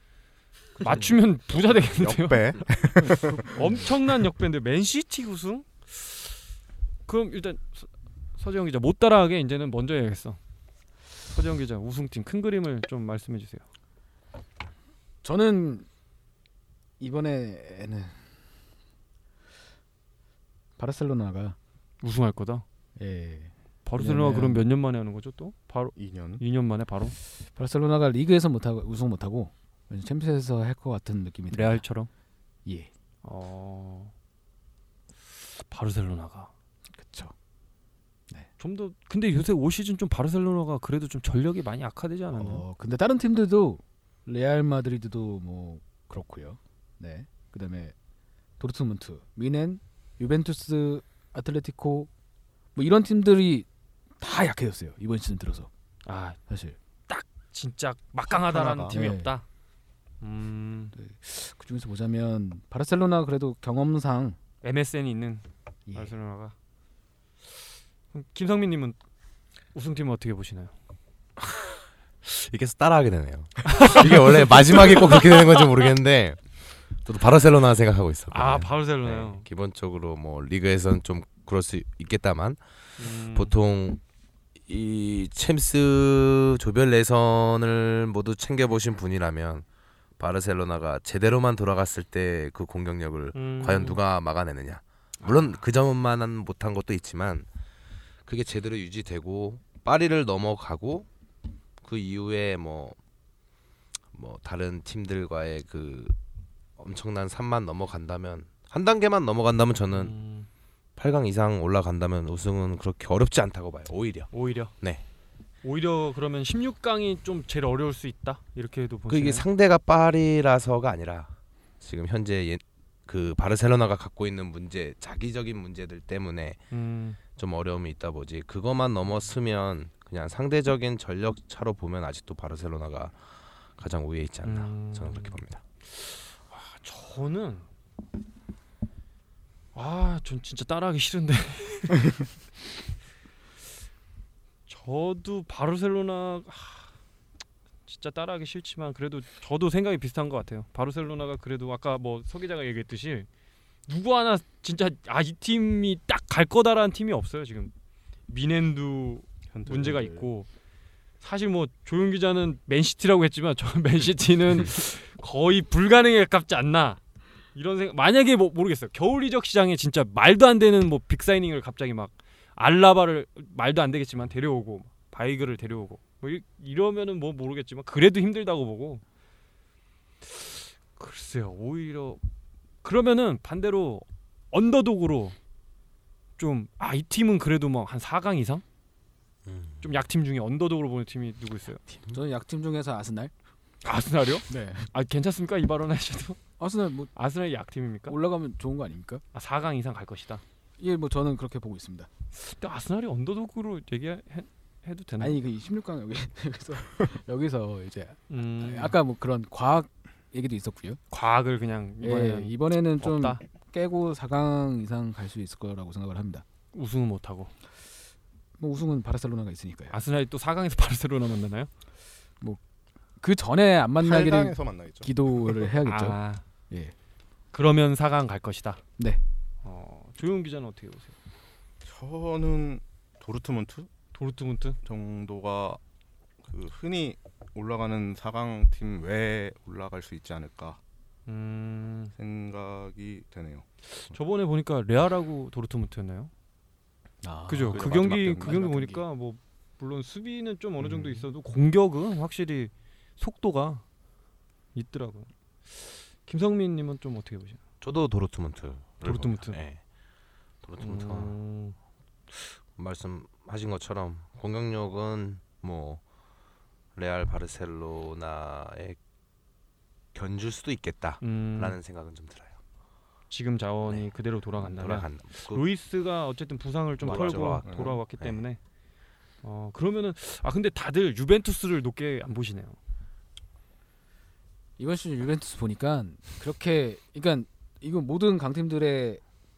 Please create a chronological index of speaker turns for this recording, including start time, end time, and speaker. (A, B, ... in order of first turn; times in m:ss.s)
0:00.8-0:06.4 A
0:01.6-0:03.6 B
0:07.1-0:10.4 A
0:11.3-0:13.6 A
0:15.2-0:15.9 C
0:17.0-0:18.2 C
0:20.8-0:21.6 C
0:22.0-0:22.6 A
0:23.0-0:24.6 C
0:23.8-0:27.2 A
0:26.0-0:26.4 B
0:27.6-0:31.8 C
0:31.5-0:32.1 A
0:33.2-0:34.1 A
0:35.3-0:36.5 A
0:36.9-0:37.3 C
0:38.6-0:42.6 A
0:42.4-0:48.0 C
0:48.6-0:52.1 C
0:52.8-0:53.7 C
0:54.2-0:55.7 C
0:56.1-0:56.4 A
0:56.5-0:56.8 C
0:57.1-0:59.4 A
0:58.3-0:59.0 B
0:58.9-0:59.3 C
1:00.2-1:01.0 A
1:01.0-1:04.4 C
1:04.6-1:06.6 A
1:05.9-1:06.1 C
1:08.1-1:09.0 A
1:09.8-1:10.7 A
1:11.4-1:16.4 D
1:13.7-1:15.6 A
1:17.0-1:22.6 D
1:18.3-1:19.4 A
1:23.0-1:23.5 A
1:23.3-1:24.0 D
1:24.7-1:29.6 D
1:30.2-1:37.5 D
1:33.3-1:34.0 A
1:38.3-1:41.1 D
1:41.8-1:43.0 D
1:44.1-1:46.2 D
1:46.8-1:50.2 D
1:49.9-1:50.5 A
1:51.0-1:55.0 D
1:54.3-1:54.7 A
1:55.6-1:59.5 A
1:59.1-2:06.6 D
2:06.7-2:07.2 A
2:07.4-2:13.2 D
2:13.8-2:15.6 D
2:14.4-2:15.4 A
2:15.9-2:17.7 A
2:19.7-2:22.1 A
2:24.7-2:26.9 A
2:27.9-2:33.3 A
2:33.9-2:37.7 A
2:38.3-2:40.5 A
2:39.5-2:40.3 B
2:41.2-2:47.0 A
2:47.5-2:59.0 A
3:00.2-3:02.2 A
3:02.8-3:05.4 A
3:06.4-3:08.6 A
3:09.5-3:09.8 D
3:09.8-3:11.8 A
3:12.1-3:13.3 C
3:13.8-3:16.4 A
3:14.5-3:14.9 C
3:16.6-3:17.1 C
3:17.2-3:18.2 A
3:18.1-3:19.2 C
3:19.3-3:20.4 A
3:20.8-3:22.1 C
3:22.3-3:25.4 A
3:25.2-3:31.0 C
3:28.3-3:29.0 A
3:31.1-3:33.4 A
3:32.0-3:36.4 C
3:36.7-3:37.5 A
3:38.6-3:40.0 C
3:39.9-3:41.7 A
3:43.2-3:46.2 C
3:44.0-3:45.7 B
3:45.8-3:46.4 A
3:47.5-3:48.8 A
3:49.6-3:51.2 A
3:51.8-3:53.9 B
3:54.1-3:54.8 A
3:54.8-3:55.8 B
3:56.5-4:00.8 B
4:01.3-4:02.1 A
4:02.2-4:04.1 B
4:03.9-4:06.3 A
4:07.2-4:08.6 C
4:07.5-4:13.8 A
4:07.7-4:09.0 B
4:14.8-4:17.6 A
4:17.8-4:19.8 D
4:19.0-4:19.6 A
4:20.6-4:21.4 D
4:20.8-4:21.8 A
4:22.3-4:26.0 D
4:27.0-4:29.0 D
4:30.2-4:32.6 D
4:31.2-4:31.8 A
4:33.3-4:38.6 A
4:34.6-4:35.7 D
4:37.0-4:38.0 B
4:37.0-4:38.4 D
4:39.4-4:42.8 A
4:44.8-4:49.2 C